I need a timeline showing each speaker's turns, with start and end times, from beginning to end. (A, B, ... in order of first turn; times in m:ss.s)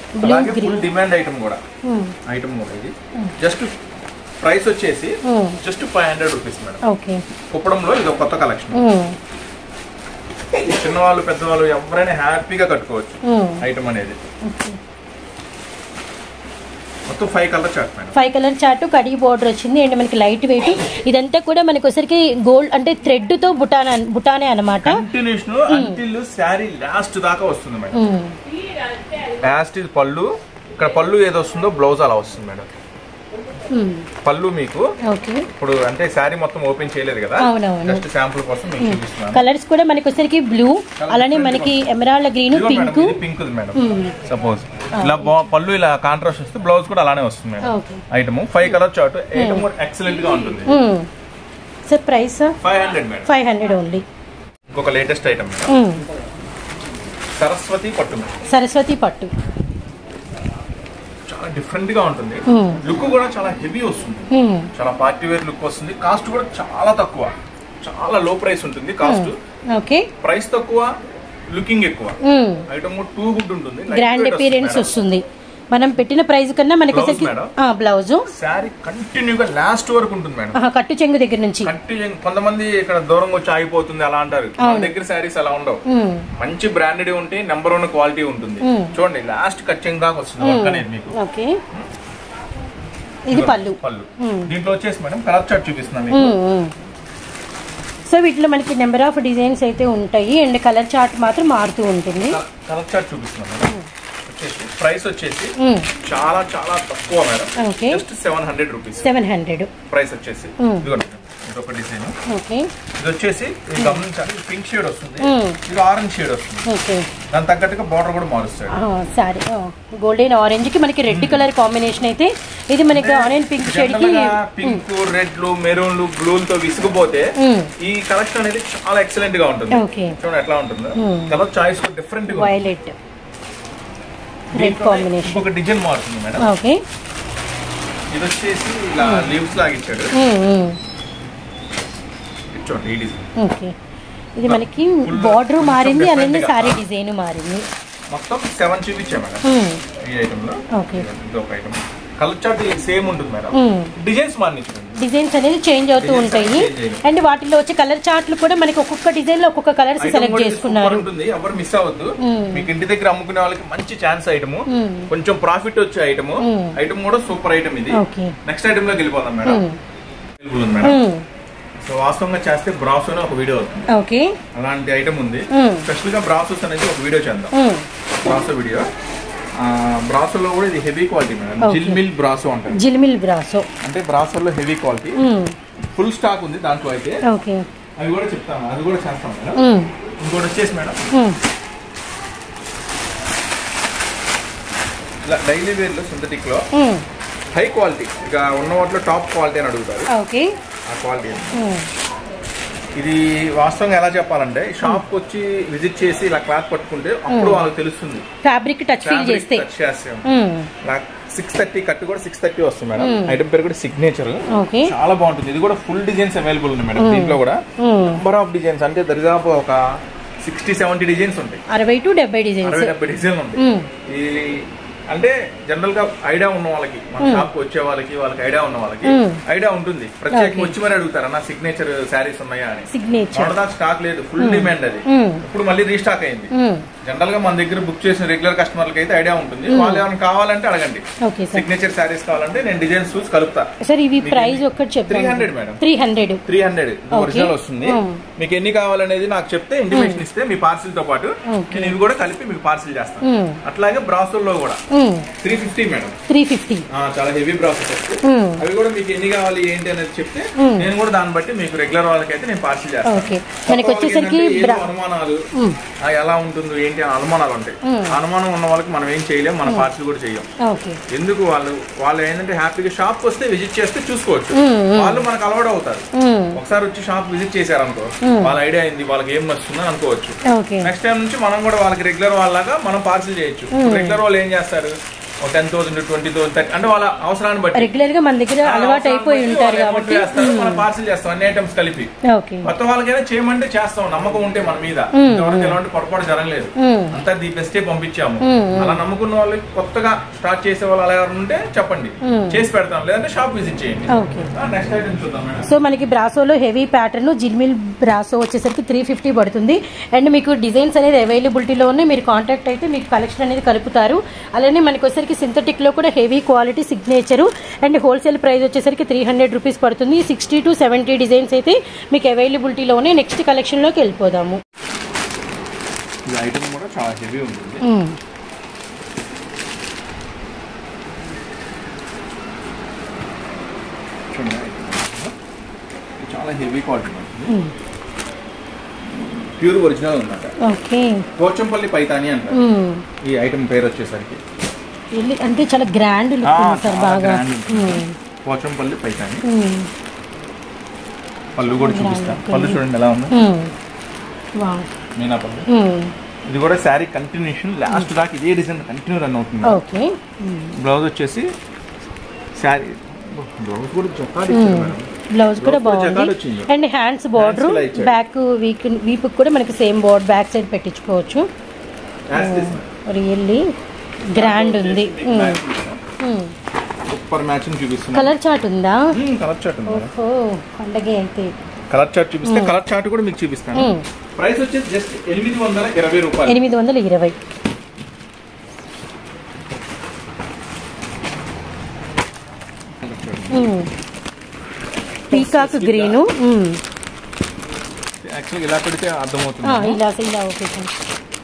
0:00.2-0:00.8 A
0:00.2-0:01.6 B
0:01.8-0:02.1 A
0:02.2-0:03.7 B
0:04.4-0:06.8 B
0:05.2-0:05.6 A
0:06.8-0:07.2 A
0:07.5-0:08.8 B
0:08.7-0:09.1 A
0:10.6-0:14.2 B
0:13.2-0:13.6 A
0:14.4-0:14.8 A
0:17.1-0:18.1 B
0:18.1-0:25.0 A
0:24.8-0:28.0 B
0:25.7-0:26.0 A
0:27.9-0:28.3 A
0:29.4-0:32.7 B
0:33.7-0:34.0 A
0:34.2-0:34.9 B
0:35.1-0:35.5 A
0:35.5-0:39.5 B
0:37.4-0:38.0 A
0:38.8-0:43.2 A
0:41.0-0:41.9 B
0:42.5-0:50.8 B
0:43.8-0:44.1 A
0:44.9-0:45.4 A
0:47.6-0:48.0 A
0:49.4-0:49.7 A
0:50.6-0:51.1 A
0:51.9-0:52.6 A
0:52.6-0:53.3 B
0:53.3-0:54.0 A
0:54.7-0:55.7 B
0:55.7-0:56.0 A
0:57.4-0:58.3 B
0:58.5-0:59.3 A
1:01.3-1:09.4 B
1:02.5-1:02.8 A
1:04.3-1:04.7 A
1:09.0-1:10.1 A
1:10.2-1:10.9 B
1:11.5-1:12.2 B
1:12.2-1:12.6 A
1:12.7-1:14.9 B
1:13.9-1:18.3 A
1:16.9-1:17.5 B
1:18.3-1:20.6 B
1:20.5-1:21.7 A
1:21.6-1:25.8 B
1:24.6-1:24.9 A
1:25.9-1:26.3 A
1:26.4-1:31.1 B
1:28.6-1:28.9 A
1:30.4-1:31.6 A
1:33.3-1:34.5 A
1:33.3-1:36.3 B
1:36.1-1:36.7 A
1:38.1-1:42.4 A
1:42.2-1:43.7 B
1:44.2-1:49.1 B
1:45.6-1:45.9 A
1:47.6-1:48.0 A
1:49.0-1:49.7 A
1:49.9-1:52.1 B
1:50.6-1:50.8 A
1:52.3-1:52.7 A
1:53.0-1:56.6 B
1:53.8-1:54.0 A
1:55.2-1:55.6 A
1:56.6-1:57.1 A
1:57.3-1:58.8 B
1:58.7-2:04.8 A
2:01.1-2:01.5 B
2:02.9-2:12.6 B
2:07.4-2:07.7 A
2:09.7-2:10.2 A
2:11.0-2:11.3 A
2:12.3-2:12.9 A
2:14.5-2:16.5 B
2:14.6-2:15.4 A
2:16.4-2:16.8 A
2:18.1-2:20.1 B
2:19.0-2:19.3 A
2:20.1-2:20.8 A
2:22.5-2:23.3 B
2:23.4-2:23.7 A
2:24.4-2:27.6 A
2:24.4-2:26.8 B
2:28.1-2:29.4 B
2:29.4-2:29.8 A
2:30.0-2:35.0 B
2:30.7-2:31.0 A
2:33.5-2:33.9 A
2:35.0-2:41.1 A
2:36.0-2:37.0 B
2:40.0-2:49.6 B
2:42.2-2:42.7 A
2:44.7-2:45.1 A
2:46.4-2:46.7 A
2:47.9-2:48.4 A
2:49.4-2:49.8 A
2:50.4-2:51.0 B
2:50.8-2:51.2 A
2:51.8-2:53.9 B
2:53.9-2:54.4 A
2:54.5-2:57.5 B
2:55.5-2:55.9 A
2:57.5-2:57.8 A
2:58.2-2:58.9 B
2:59.6-3:02.8 B
3:01.6-3:02.0 A
3:02.7-3:03.7 A
3:03.8-3:05.2 B
3:05.2-3:05.6 A
3:05.9-3:07.2 B
3:07.2-3:07.6 A
3:08.0-3:09.6 B
3:09.6-3:09.9 A
3:10.2-3:11.1 B
3:11.1-3:11.4 A
3:15.2-3:16.6 B
3:16.7-3:17.0 A
3:17.5-3:20.1 B
3:20.1-3:20.5 A
3:20.9-3:21.6 B
3:21.5-3:21.9 A
3:23.0-3:28.2 B
3:27.3-3:27.6 A
3:28.4-3:29.7 A
3:29.0-3:30.3 B
3:30.2-3:30.7 A
3:30.8-3:39.8 B
3:33.0-3:33.4 A
3:34.5-3:34.9 A
3:37.0-3:38.2 A
3:40.4-3:41.6 B
3:41.7-3:42.9 A
3:42.6-3:56.5 B
3:43.6-3:43.9 A
3:47.2-3:47.5 A
3:49.0-3:49.4 A
3:50.3-3:50.7 A
3:52.9-3:53.6 A
3:54.4-3:55.4 A
3:56.5-3:56.8 A
3:57.0-4:03.7 B
3:59.7-4:00.0 A
4:01.2-4:01.7 A
4:03.8-4:06.4 A
4:04.2-4:05.8 B
4:06.4-4:14.8 B
4:07.1-4:08.2 A
4:09.9-4:10.2 A
4:11.5-4:12.0 A
4:13.2-4:13.6 A
4:14.9-4:15.3 A
4:15.4-4:16.2 B
4:16.3-4:16.8 A
4:16.9-4:25.5 B
4:18.2-4:18.6 A
4:20.6-4:20.9 A
4:23.0-4:24.9 A
4:26.0-4:30.5 B
4:27.8-4:28.2 A
4:30.6-4:31.0 A
4:31.1-4:47.9 B
4:34.5-4:35.2 A
4:36.2-4:36.6 A
4:38.2-4:38.5 A
4:40.5-4:40.9 A
4:43.7-4:44.2 A
4:47.7-4:50.8 A
4:48.6-4:52.1 B
4:52.3-4:52.7 A
4:52.6-5:05.7 B
4:55.1-4:55.8 A
4:56.8-4:57.1 A
4:58.4-4:59.0 A
5:02.2-5:02.6 A
5:04.1-5:04.5 A
5:05.6-5:24.6 A
5:26.3-5:27.8 B
5:27.8-5:28.1 A
5:34.3-5:35.3 B
5:36.2-5:37.5 B
5:37.5-5:37.7 A
5:39.1-5:40.5 B
5:40.6-5:41.2 A
5:41.4-5:42.6 B
5:42.5-5:43.0 A
5:43.2-5:44.4 B
5:45.1-5:48.1 A
5:46.4-5:49.4 B
5:49.4-5:49.9 A
5:51.5-5:53.3 B
5:51.6-5:53.7 A
5:54.6-5:54.9 A
5:55.2-5:55.6 B
5:55.7-5:56.1 A
5:56.5-5:59.8 B
5:59.6-6:00.7 A
6:00.8-6:01.5 B
6:02.6-6:06.7 B
6:04.5-6:11.5 A
6:07.4-6:08.1 B
6:12.3-6:12.9 B
6:12.4-6:13.7 A
6:14.3-6:15.6 A
6:14.3-6:16.0 B
6:16.2-6:16.5 A
6:17.1-6:18.3 B
6:18.1-6:19.1 A
6:19.1-6:20.1 B
6:19.9-6:21.5 A
6:21.9-6:26.6 B
6:22.4-6:22.7 A
6:23.7-6:24.0 A
6:26.4-6:27.4 A
6:33.0-6:33.7 B
6:33.5-6:33.9 A
6:35.3-6:36.2 B
6:35.3-6:36.8 A
6:38.2-6:40.0 B
6:39.6-6:41.0 A